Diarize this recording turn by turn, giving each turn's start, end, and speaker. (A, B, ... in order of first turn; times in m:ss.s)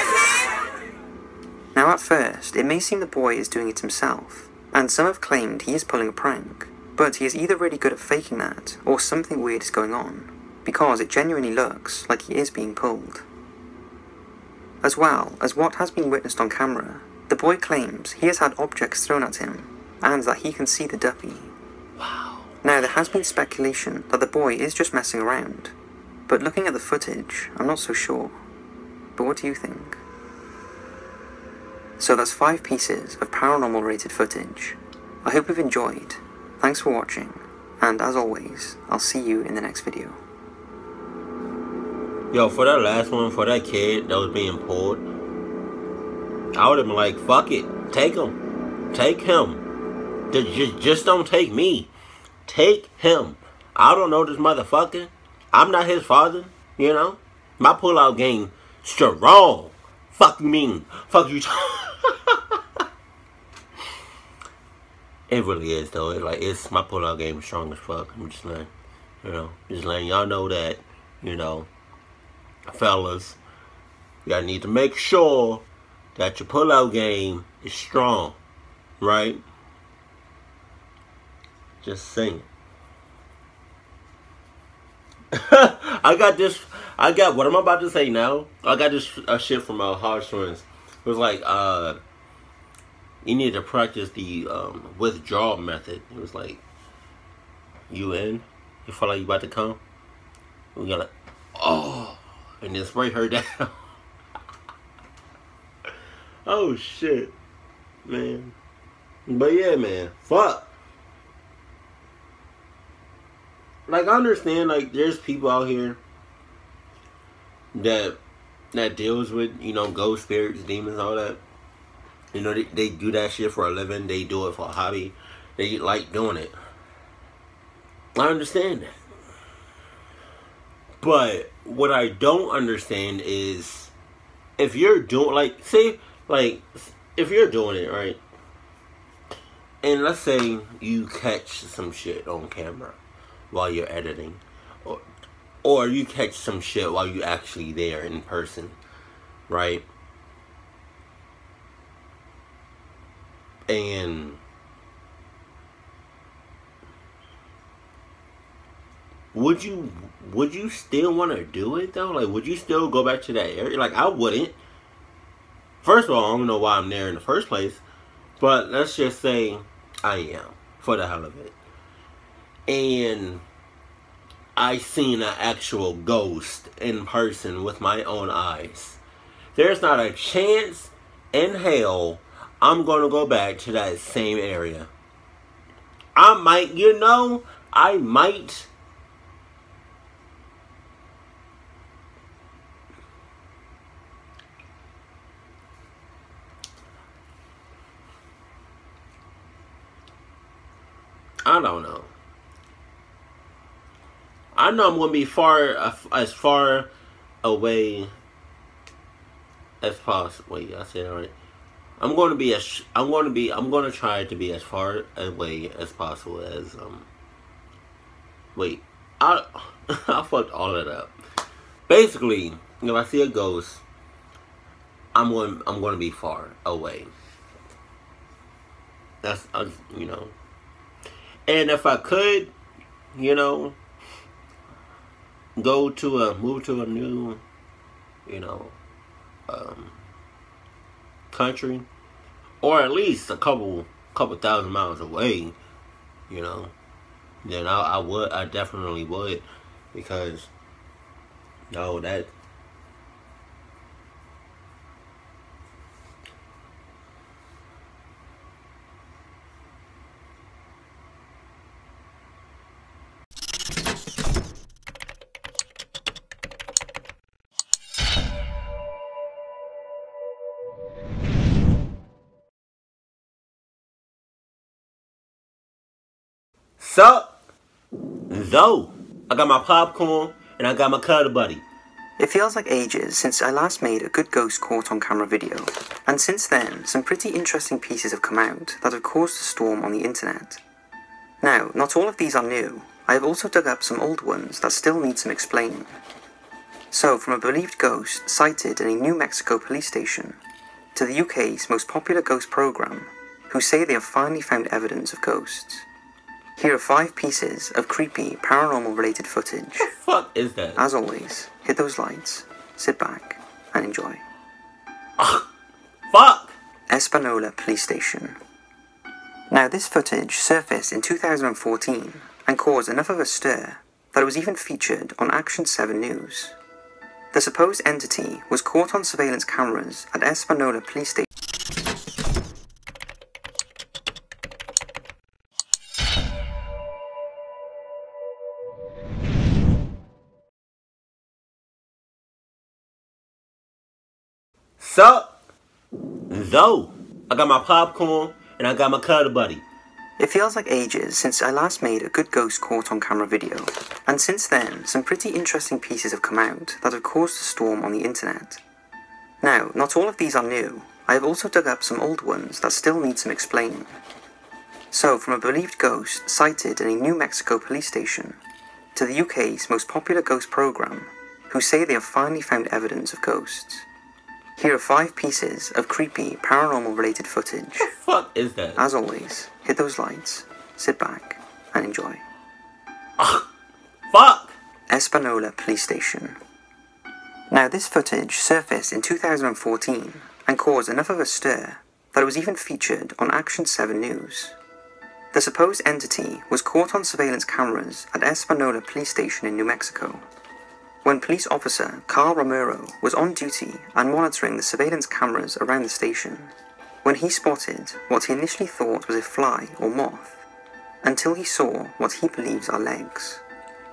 0:01.7-0:13.2 A
0:14.8-0:21.5 A
0:22.0-0:22.5 B
0:22.6-0:25.7 A
0:26.3-0:28.4 A
0:29.2-0:30.0 A
0:32.0-0:40.2 A
0:42.3-0:45.0 B
0:46.5-0:48.4 B
0:48.9-0:49.6 B
0:50.3-0:51.9 B
0:52.4-1:02.6 B
1:05.3-1:08.7 B
1:09.2-1:11.7 B
1:12.7-1:13.4 B
1:14.2-1:15.6 B
1:16.2-1:18.4 B
1:19.0-1:19.4 B
1:21.8-1:22.4 B
1:25.3-1:32.0 B
1:33.2-1:36.6 B
1:37.9-1:39.8 B
1:40.8-1:43.8 B
1:46.4-1:47.3 B
1:48.0-1:48.5 B
1:49.3-1:50.7 B
1:53.9-1:56.0 B
1:57.7-1:58.2 B
1:58.7-2:01.4 B
2:02.3-2:06.5 B
2:08.2-2:09.0 B
2:11.0-2:13.9 B
2:14.6-2:18.2 B
2:19.8-2:23.0 B
2:23.5-2:25.0 B
2:25.6-2:28.8 B
2:29.5-2:29.8 B
2:33.7-2:34.4 B
2:39.3-2:44.6 B
2:45.8-2:47.8 B
2:48.4-2:51.5 B
2:52.7-2:53.4 B
2:54.6-2:59.0 B
2:59.6-3:04.9 B
3:06.2-3:08.7 B
3:21.4-3:22.1 B
3:24.5-3:26.9 B
3:27.4-3:28.1 B
3:29.8-3:31.3 B
3:32.0-3:37.1 B
3:38.5-3:41.1 B
3:41.9-3:43.8 B
3:45.1-3:47.1 B
3:49.2-3:50.3 B
3:51.5-3:52.5 B
3:53.1-3:53.8 B
3:55.6-3:57.4 B
3:58.2-3:58.8 B
3:59.5-4:00.0 B
4:01.3-4:01.9 B
4:02.6-4:05.6 B
4:06.3-4:06.7 B
4:07.4-4:10.5 B
4:11.7-4:12.3 B
4:36.8-4:37.3 B
4:38.3-4:41.6 B
4:42.2-4:50.6 A
4:51.4-4:56.0 A
4:56.9-5:00.4 A
5:00.9-5:05.9 A
5:06.6-5:09.9 A
5:09.8-5:10.8 B
5:10.8-5:14.2 A
5:15.2-5:15.4 B
5:16.1-5:16.5 B
5:16.9-5:18.4 A
5:19.5-5:26.6 A
5:27.3-5:31.2 A
5:44.8-5:45.3 B
5:46.3-5:49.6 B
5:50.2-5:58.6 A
5:59.4-6:04.0 A
6:04.9-6:08.4 A
6:08.9-6:13.9 A
6:14.6-6:17.9 A
6:17.8-6:18.8 B
6:18.8-6:22.2 A
6:23.2-6:23.4 B
6:24.1-6:24.6 B
6:24.9-6:26.4 A
6:27.5-6:34.6 A
6:35.3-6:40.2 A
6:41.0-6:50.4 A
6:51.0-6:53.4 A